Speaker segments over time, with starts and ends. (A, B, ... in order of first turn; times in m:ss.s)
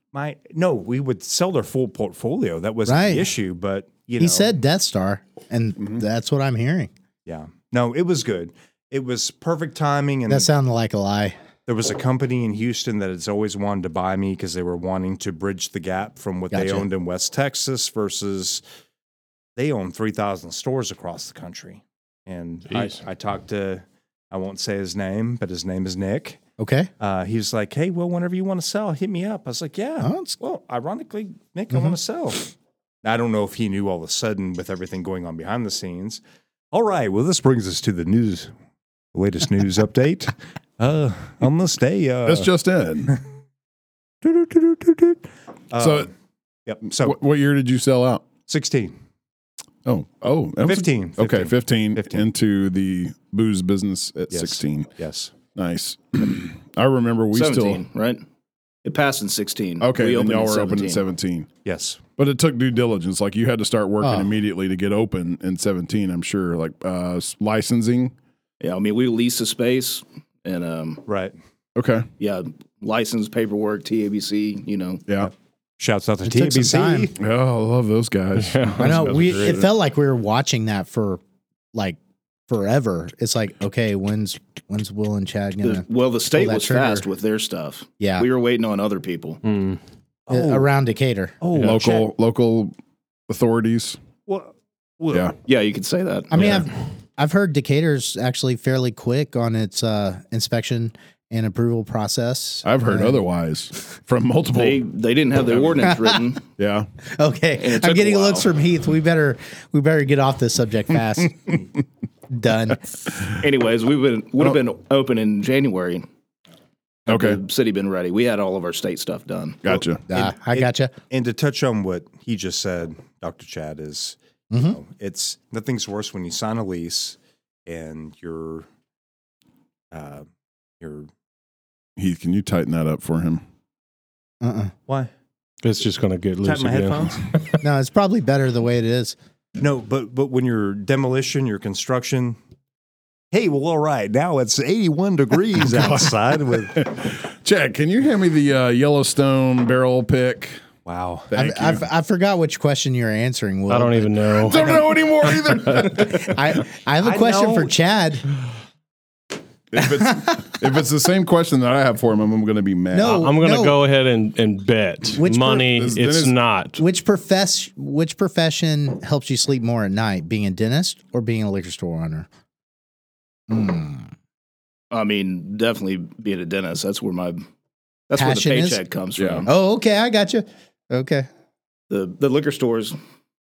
0:00.1-0:04.5 A
0:02.9-0:03.3 B
0:04.2-0:06.9 B
0:07.3-0:10.5 A
0:10.3-0:11.4 B
0:11.7-0:18.6 A
0:16.5-0:16.8 B
0:19.6-0:26.4 A
0:22.7-0:23.0 C
0:26.6-0:26.9 B
0:27.0-0:32.5 A
0:30.0-0:30.4 B
0:33.0-0:36.2 A
0:36.7-0:38.5 A
0:39.1-0:42.5 A
0:42.2-0:43.1 D
0:44.2-0:46.1 A
0:45.8-0:46.1 D
0:46.7-0:47.2 A
0:47.0-0:48.2 D
0:48.5-0:48.9 A
0:49.8-0:54.9 D
0:50.6-0:52.3 A
0:54.3-0:55.3 A
0:55.6-0:57.8 D
0:57.3-0:58.2 E
0:58.8-1:01.0 E
0:59.8-1:01.5 D
1:01.6-1:02.0 A
1:02.2-1:08.1 D
1:04.0-1:04.3 B
1:08.6-1:11.0 E
1:11.1-1:11.3 A
1:11.8-1:12.1 D
1:12.2-1:15.0 E
1:15.2-1:17.2 A
1:16.2-1:17.1 B
1:17.2-1:19.7 D
1:18.4-1:19.6 C
1:18.8-1:21.2 B
1:22.5-1:27.1 B
1:25.6-1:29.4 E
1:28.0-1:28.3 B
1:29.4-1:29.8 C
1:30.3-1:30.7 A
1:30.3-1:31.4 B
1:31.4-1:32.1 A
1:31.6-1:32.7 D
1:33.3-1:34.0 D
1:34.3-1:35.3 A
1:35.5-1:36.6 E
1:36.3-1:43.2 B
1:42.6-1:44.8 D
1:44.6-1:46.4 E
1:45.9-1:46.2 B
1:46.6-1:46.9 D
1:47.1-1:51.5 B
1:47.6-1:48.5 E
1:52.3-1:52.8 B
1:53.4-1:56.1 E
1:57.1-1:59.8 E
1:57.1-1:57.4 D
1:59.6-2:00.0 D
2:00.1-2:00.9 B
2:00.1-2:07.2 A
2:04.5-2:04.8 B
2:07.7-2:08.7 A
2:09.9-2:10.3 A
2:10.8-2:11.1 A
2:12.0-2:13.4 D
2:14.4-2:14.7 B
2:15.6-2:17.6 C
2:16.4-2:17.3 A
2:17.6-2:19.2 B
2:19.6-2:22.4 A
2:23.3-2:26.8 A
2:25.6-2:30.6 D
2:30.9-2:31.3 A
2:31.3-2:31.8 D
2:31.4-2:34.6 B
2:33.7-2:34.7 C
2:34.4-2:36.4 D
2:36.0-2:38.3 B
2:37.0-2:37.7 A
2:39.7-2:43.3 D
2:39.8-2:40.6 B
2:42.9-2:43.8 B
2:43.0-2:46.8 C
2:45.2-2:45.7 B
2:45.6-2:46.4 D
2:46.8-2:52.3 B
2:53.5-2:54.1 B
2:54.9-2:57.4 E
2:58.1-2:59.5 E
2:58.2-2:58.8 B
2:59.2-2:59.5 D
2:59.5-3:01.3 B
3:01.9-3:03.0 E